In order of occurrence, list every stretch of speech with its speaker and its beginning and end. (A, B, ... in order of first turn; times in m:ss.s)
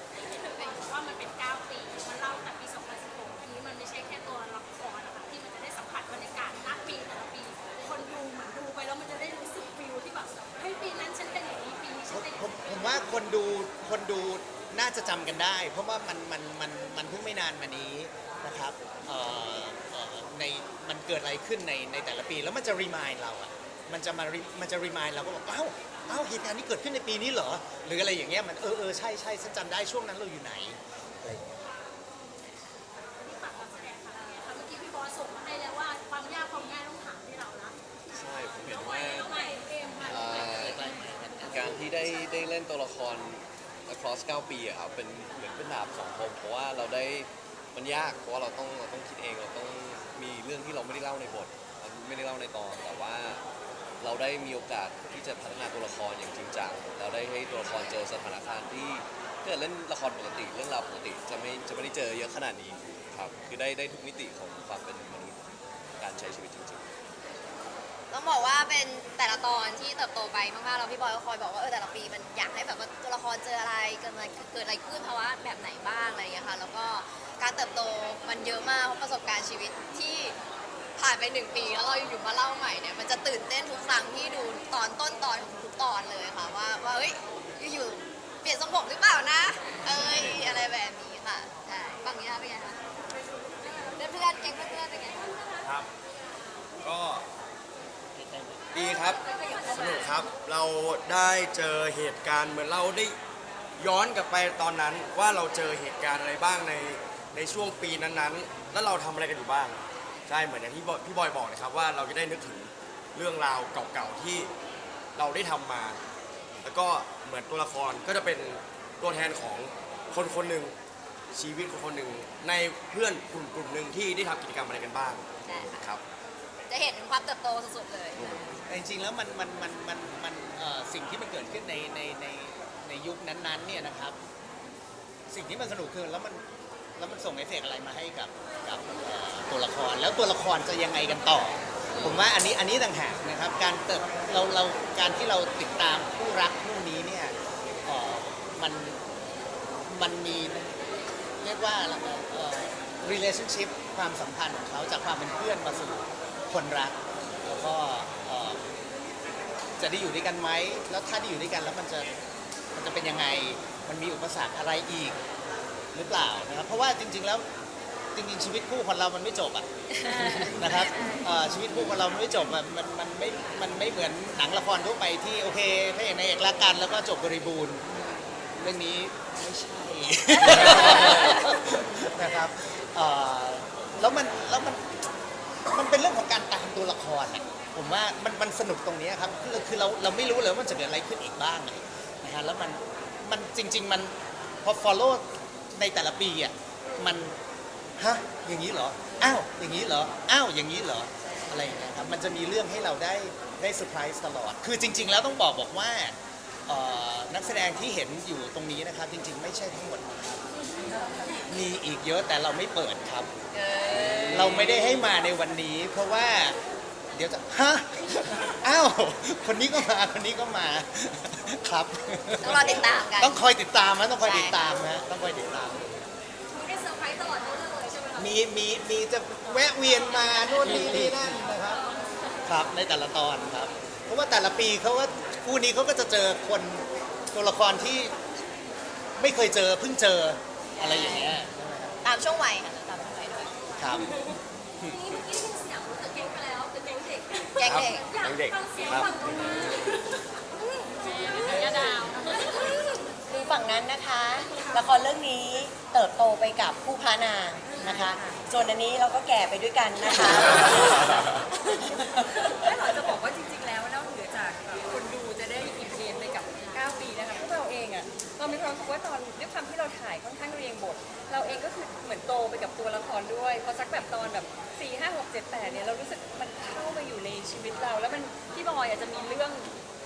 0:00.2-0:13.1 A
0:12.1-0:31.4 B
0:33.2-0:37.8 A
0:38.1-0:39.5 C
0:38.6-0:40.5 A
0:40.0-0:40.8 C
0:40.0-0:42.1 B
0:41.4-0:53.4 C
0:54.0-1:05.4 C
1:06.0-1:06.8 C
1:08.1-1:20.4 D
1:21.0-1:32.8 D
1:29.8-1:30.6 E
1:33.8-1:35.3 D
1:35.6-1:35.9 E
1:36.8-1:37.2 E
1:38.1-1:38.7 B
1:38.7-1:43.2 E
1:39.1-1:40.2 A
1:43.8-1:54.5 E
1:55.2-1:56.0 E
1:56.6-2:00.8 E
2:01.3-2:06.0 E
2:05.4-2:05.8 D
2:06.7-2:08.4 D
2:08.2-2:08.5 E
2:08.7-2:14.2 B
2:15.3-2:16.4 B
2:17.0-2:29.0 B
2:29.9-2:30.8 B
2:31.4-2:38.6 B
2:39.8-2:42.1 B
2:42.7-2:45.2 B
2:45.9-2:47.4 B
2:48.1-3:04.9 B
3:05.7-3:17.3 B
3:18.0-3:26.2 B
3:26.7-3:30.5 B
3:31.5-3:33.3 B
3:33.5-3:34.7 D
3:34.0-3:34.6 C
3:34.3-3:36.6 B
3:37.1-3:45.9 B
3:42.4-3:43.4 D
3:44.2-3:44.6 D
3:46.5-3:48.4 A
3:48.2-3:51.8 B
3:52.4-3:58.2 B
3:59.2-4:02.0 B
4:00.8-4:01.4 D
4:02.0-4:03.7 D
4:03.8-4:04.1 B
4:03.9-4:13.0 A
4:07.6-4:08.1 D
4:07.6-4:09.7 E
4:13.3-4:21.4 F
4:17.6-4:18.4 G
4:22.0-4:39.7 G